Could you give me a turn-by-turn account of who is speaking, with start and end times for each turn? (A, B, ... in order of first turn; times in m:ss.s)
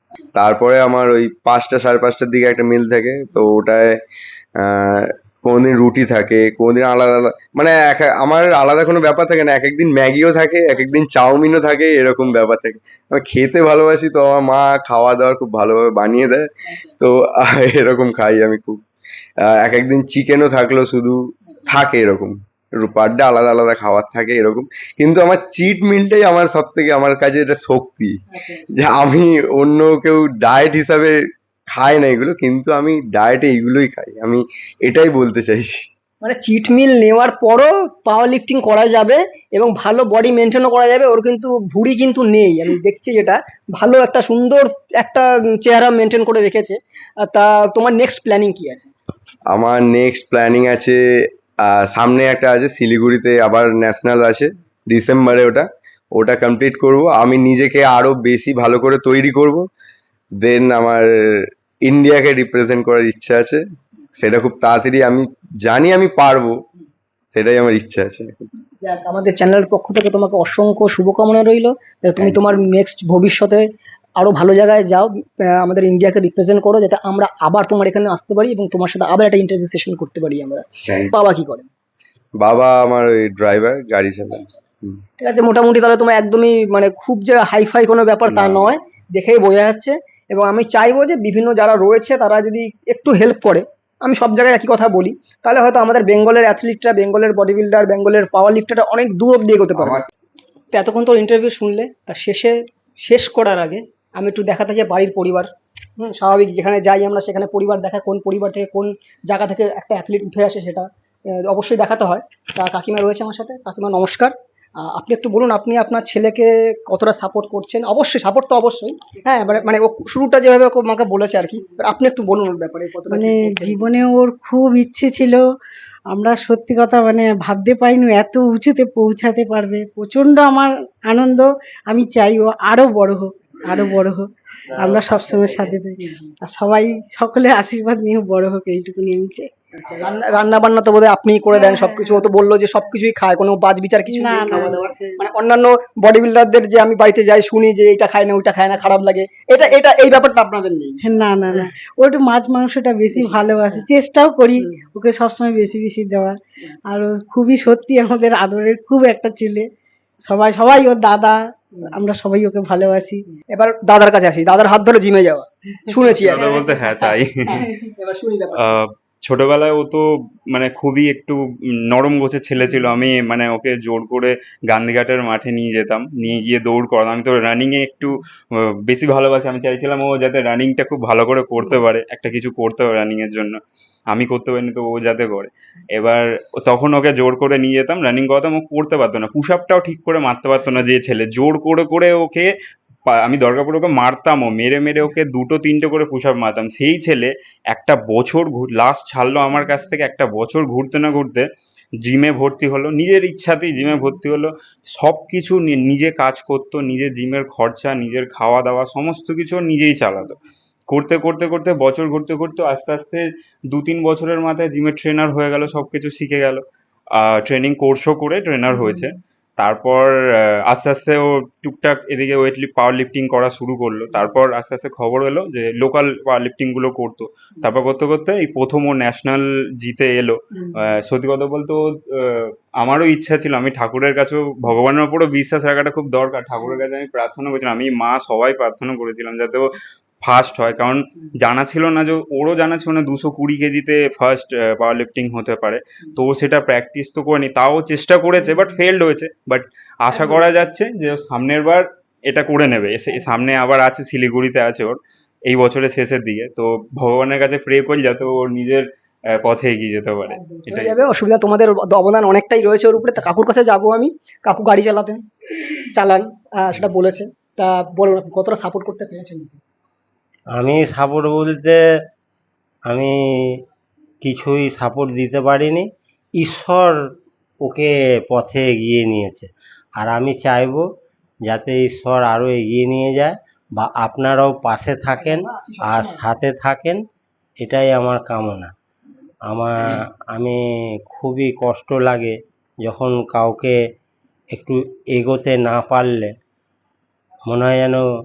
0:00.4-0:04.0 A
0:04.6-0:16.4 A
0:10.7-0:11.0 B
0:12.2-0:12.5 B
0:16.7-0:17.0 B
0:17.0-0:18.8 A
0:19.5-0:28.1 A
0:21.5-0:21.8 B
0:28.3-0:28.8 B
0:28.7-0:31.2 A
0:31.7-0:35.8 A
0:36.2-0:48.9 B
0:49.5-0:51.0 A
0:51.7-0:59.6 A
1:00.4-1:03.6 A
1:04.2-1:06.6 A
1:07.3-1:08.5 A
1:08.8-1:13.6 B
1:12.2-1:12.5 A
1:14.2-1:21.7 B
1:20.9-1:21.1 A
1:22.4-1:25.0 A
1:24.3-1:24.6 B
1:25.2-1:40.0 B
1:28.3-1:28.7 A
1:39.8-1:40.1 A
1:40.7-2:03.9 B
2:03.1-2:05.4 C
2:06.1-2:19.5 C
2:14.8-2:16.3 B
2:19.8-2:31.6 B
2:21.5-2:22.2 C
2:24.0-2:25.2 C
2:31.0-2:39.7 C
2:33.1-2:33.8 B
2:40.2-2:43.2 C
2:43.5-2:48.8 B
2:46.2-2:47.6 D
2:48.6-2:58.2 D
2:58.8-3:03.6 D
3:04.1-3:12.5 D
3:13.1-3:21.4 D
3:22.0-3:36.6 D
3:37.1-3:59.7 D
4:00.2-4:18.8 D
4:10.1-4:10.4 B
4:19.4-4:20.9 D
4:20.3-4:25.2 B
4:25.9-4:29.6 B
4:30.5-4:31.8 E
4:32.9-4:33.6 E
4:34.2-4:37.0 E
4:37.6-4:40.8 E
4:41.4-4:47.0 E
4:45.2-4:46.4 B
4:47.6-4:48.7 E
4:49.5-4:53.8 E
4:54.5-4:56.3 E
4:57.5-4:58.0 E